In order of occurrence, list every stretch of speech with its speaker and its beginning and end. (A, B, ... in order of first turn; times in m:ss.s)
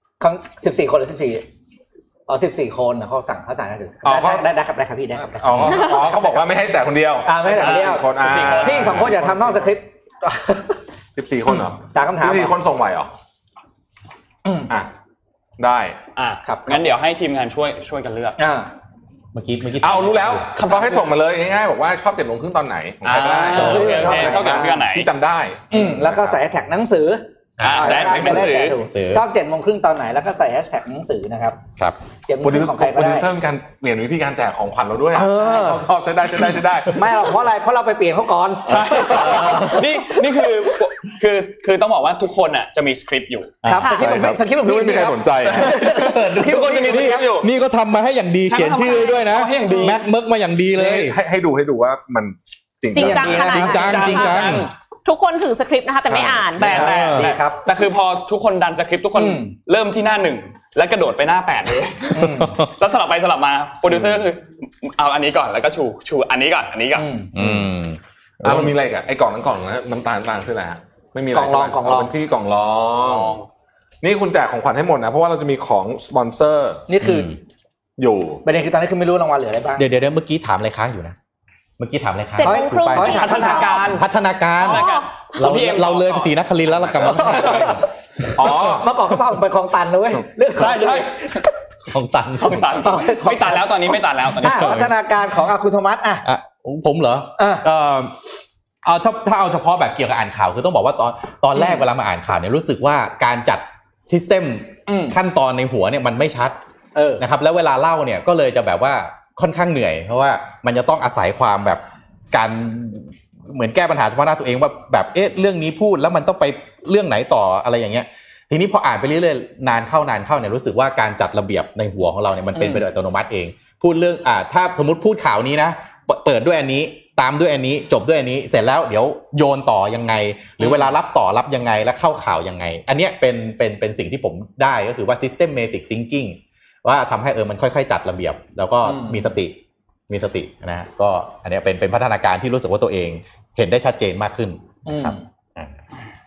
0:00.2-0:01.4 A
0:02.3-0:06.4 A
0:04.0-0:04.5 B
0:05.4-0:09.6 B
0:07.2-0:10.8 A
0:07.4-0:09.2 C
0:11.2-0:13.1 B
0:11.9-0:12.6 A
0:15.6-0:16.0 B
0:16.2-0:18.4 C
0:16.4-0:16.9 A
0:18.4-0:18.7 A
0:19.3-0:20.4 D
0:19.8-0:26.4 B
0:20.5-0:21.1 C
0:23.0-0:25.1 C
0:23.5-0:24.8 A
0:23.5-0:24.3 D
0:25.7-0:31.6 A
0:27.6-0:29.2 D
0:27.6-0:28.8 C
0:32.3-0:33.3 A
0:32.4-0:37.1 B
0:35.1-0:35.9 A
0:36.9-0:40.8 A
0:38.7-0:39.5 B
0:39.0-0:43.6 C
0:39.1-0:39.8 D
0:43.6-0:44.1 D
0:43.6-0:47.4 A
0:43.9-0:45.8 B
0:45.6-0:47.5 C
0:46.6-0:51.2 D
0:48.5-0:50.0 C
0:50.7-0:53.5 B
0:52.9-0:54.2 A
0:52.9-0:54.5 E
0:53.4-0:54.7 D
0:53.6-0:54.7 C
0:55.0-0:56.7 E
0:56.1-0:56.6 B
0:56.6-1:07.1 C
0:56.6-0:57.6 A
0:56.7-0:57.3 D
0:59.1-0:59.5 A
1:02.1-1:02.6 A
1:02.2-1:02.7 D
1:03.9-1:04.2 B
1:07.0-1:07.3 A
1:07.3-1:08.7 D
1:07.4-1:07.7 B
1:08.4-1:13.4 B
1:11.3-1:12.1 A
1:13.0-1:13.5 C
1:14.0-1:16.8 B
1:16.9-1:17.4 A
1:17.0-1:17.4 D
1:18.0-1:18.4 B
1:18.4-1:19.9 A
1:19.8-1:21.2 D
1:21.8-1:23.4 D
1:22.4-1:24.0 E
1:22.4-1:23.9 A
1:23.0-1:24.0 C
1:23.9-1:27.8 D
1:24.6-1:26.3 C
1:24.6-1:25.1 E
1:27.1-1:27.8 A
1:28.3-1:28.9 B
1:28.4-1:31.3 A
1:30.5-1:31.4 C
1:31.9-1:32.9 D
1:32.4-1:34.9 C
1:32.8-1:36.2 A
1:34.6-1:34.9 D
1:36.2-1:38.1 D
1:37.4-1:37.6 A
1:38.8-1:46.6 D
1:41.5-1:41.8 A
1:44.9-1:45.2 A
1:46.9-1:47.2 A
1:47.2-2:19.6 D
2:10.6-2:10.9 C
2:18.8-2:19.3 A
2:20.1-2:25.7 D
2:24.8-2:25.2 A